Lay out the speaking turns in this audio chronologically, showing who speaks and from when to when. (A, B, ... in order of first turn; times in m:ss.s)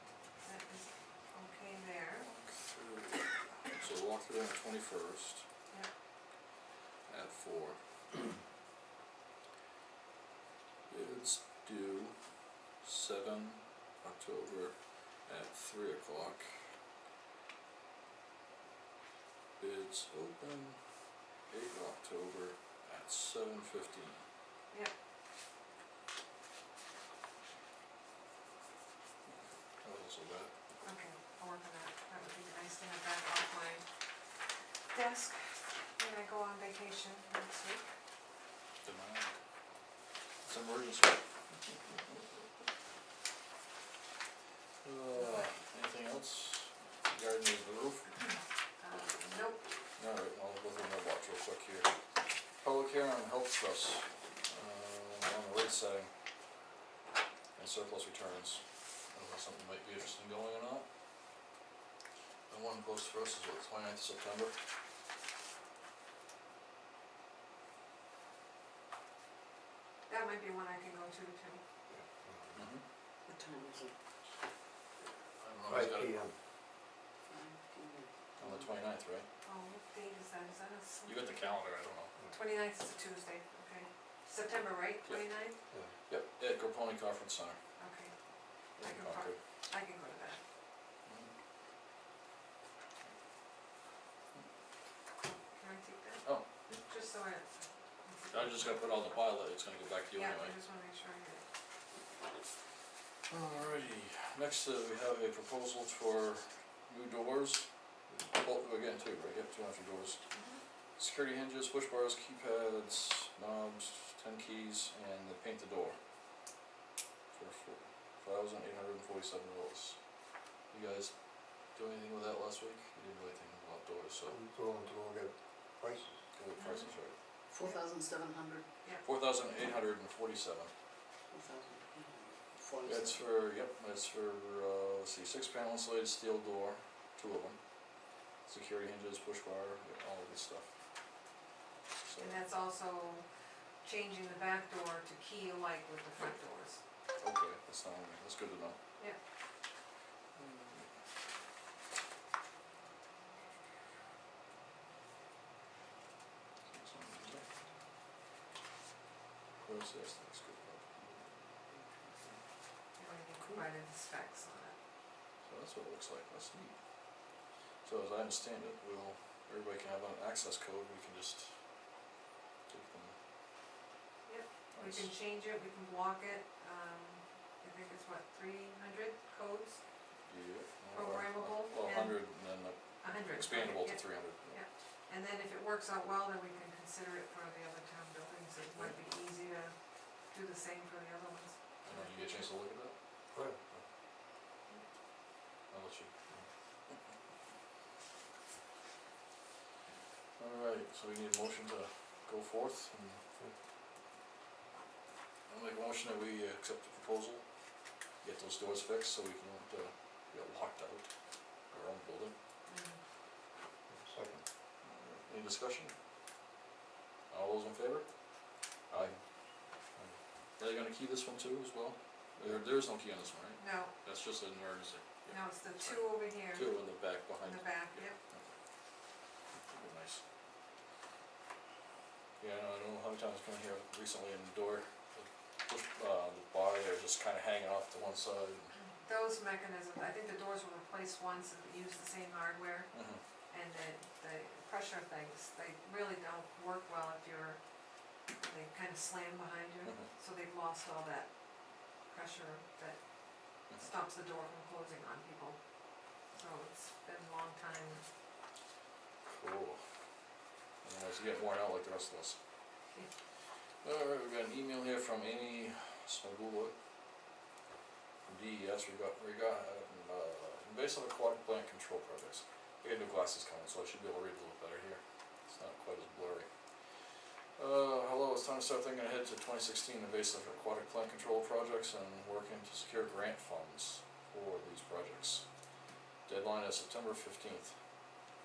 0:00.4-0:02.3 A
0:02.2-0:05.4 B
0:07.1-0:07.8 B
0:10.9-0:12.2 B
0:12.8-0:14.8 B
0:15.3-0:16.5 B
0:19.6-0:20.8 B
0:21.5-0:24.2 B
0:29.8-0:30.5 B
0:30.8-0:33.8 A
0:34.9-0:37.9 A
0:38.8-0:39.4 B
0:40.4-0:41.2 B
0:44.8-0:48.2 B
0:45.1-0:45.5 A
0:48.8-0:49.7 A
0:50.0-0:51.9 B
0:52.6-0:56.1 B
0:57.6-1:00.8 B
1:02.5-1:04.6 B
1:10.1-1:11.6 A
1:11.9-1:12.6 C
1:12.5-1:12.8 B
1:13.3-1:14.0 D
1:15.4-1:16.3 B
1:15.7-1:16.4 C
1:17.3-1:18.6 D
1:18.4-1:19.3 B
1:19.4-1:21.6 A
1:21.1-1:22.1 B
1:22.3-1:25.6 A
1:26.1-1:27.6 B
1:27.8-1:28.1 A
1:28.8-1:29.4 B
1:28.8-1:30.4 A
1:35.5-1:37.5 A
1:38.1-1:38.6 A
1:38.3-1:40.6 B
1:40.2-1:41.4 A
1:43.3-1:47.7 B
1:48.2-1:50.2 B
1:50.3-1:50.6 A
1:51.0-1:56.0 B
1:57.3-2:00.0 B
2:00.7-2:01.1 B
2:01.8-2:04.4 B
2:04.3-2:06.2 C
2:06.4-2:07.2 B
2:06.6-2:06.9 A
2:07.5-2:08.7 D
2:09.0-2:10.7 B
2:11.3-2:13.2 D
2:12.8-2:17.6 B
2:18.5-2:20.7 B
2:22.1-2:22.5 B
2:22.2-2:23.2 A
2:23.8-2:26.8 A
2:27.2-2:28.8 B
2:30.4-2:30.9 B
2:36.7-2:37.5 B
2:39.6-2:42.4 B
2:43.0-2:44.8 A
2:45.4-2:46.8 B
2:47.8-2:51.5 B
2:52.7-2:53.2 B
2:54.3-2:59.8 A
2:54.8-2:55.1 B
3:00.3-3:04.6 B
3:00.9-3:02.2 A
3:03.0-3:09.7 A
3:10.3-3:12.5 A
3:11.8-3:13.0 B
3:13.3-3:13.6 C
3:15.7-3:16.1 B
3:20.4-3:23.2 B
3:25.5-3:27.4 B
3:28.2-3:31.1 B
3:31.7-3:32.3 B
3:32.7-3:33.0 A
3:33.9-3:34.4 C
3:34.8-3:35.9 B
3:37.3-3:38.1 B
3:40.6-3:48.5 B
3:43.6-3:43.9 A
3:45.3-3:46.8 A
3:47.4-3:48.2 A
3:49.7-3:50.2 B
3:52.4-3:58.8 B
3:58.8-4:02.9 A
4:02.9-4:03.2 B
4:03.5-4:07.6 A
4:08.4-4:11.3 A
4:12.1-4:13.0 A
4:13.8-4:15.6 A
4:16.3-4:18.0 A
4:19.3-4:19.8 B
4:20.8-4:22.4 B
4:23.8-4:26.7 B
4:28.3-4:36.5 B
4:37.6-4:45.4 B
4:46.3-4:47.7 B